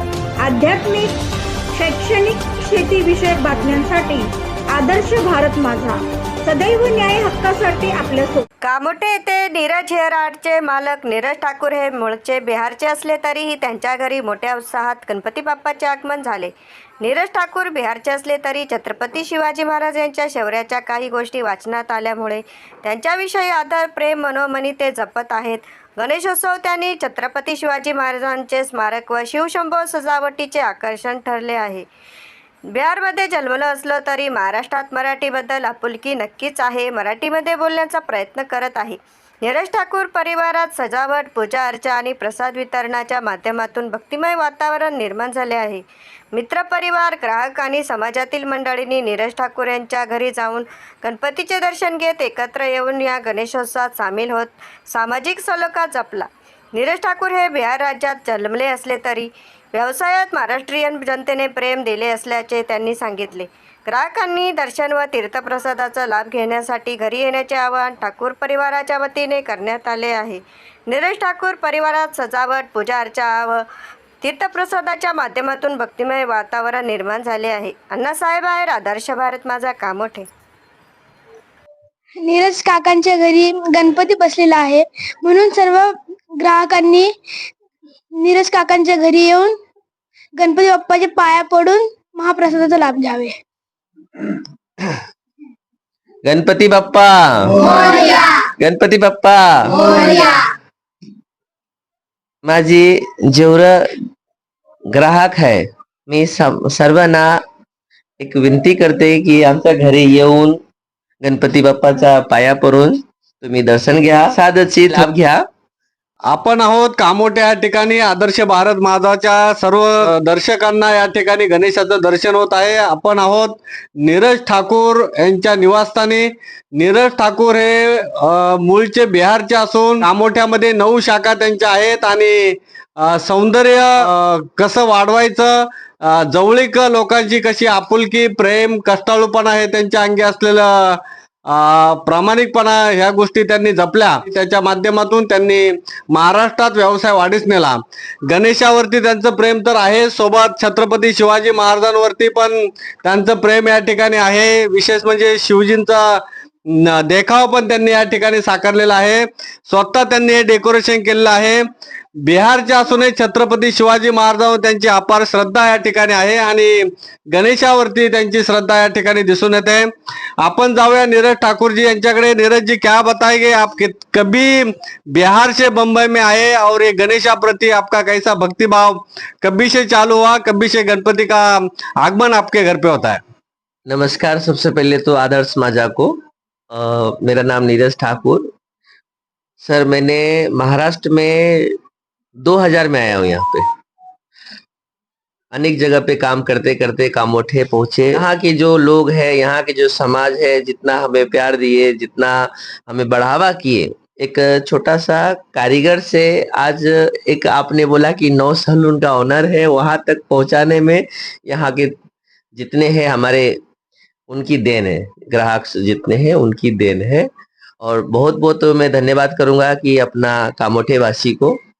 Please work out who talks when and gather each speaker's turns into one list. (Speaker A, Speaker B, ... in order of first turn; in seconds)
Speaker A: 0.5-1.1, 1.8-8.4
Speaker B: 8.6-31.9, 32.7-45.8, 46.4-73.6, 74.2-80.3
Speaker C: 82.2-87.1, 88.2-89.6, 90.4-93.4, 97.6-98.4, 99.9-100.5
Speaker D: 96.2-97.7, 98.6-100.0, 102.5-103.9, 104.9-107.4, 108.2-110.6, 111.2-115.4, 183.9-186.2, 186.7-188.5, 189.6-191.7, 192.4-193.7, 195.5-211.9, 212.5-213.6, 214.3-217.3, 217.8-221.6
Speaker E: 116.3-161.6, 162.2-169.9, 170.4-183.2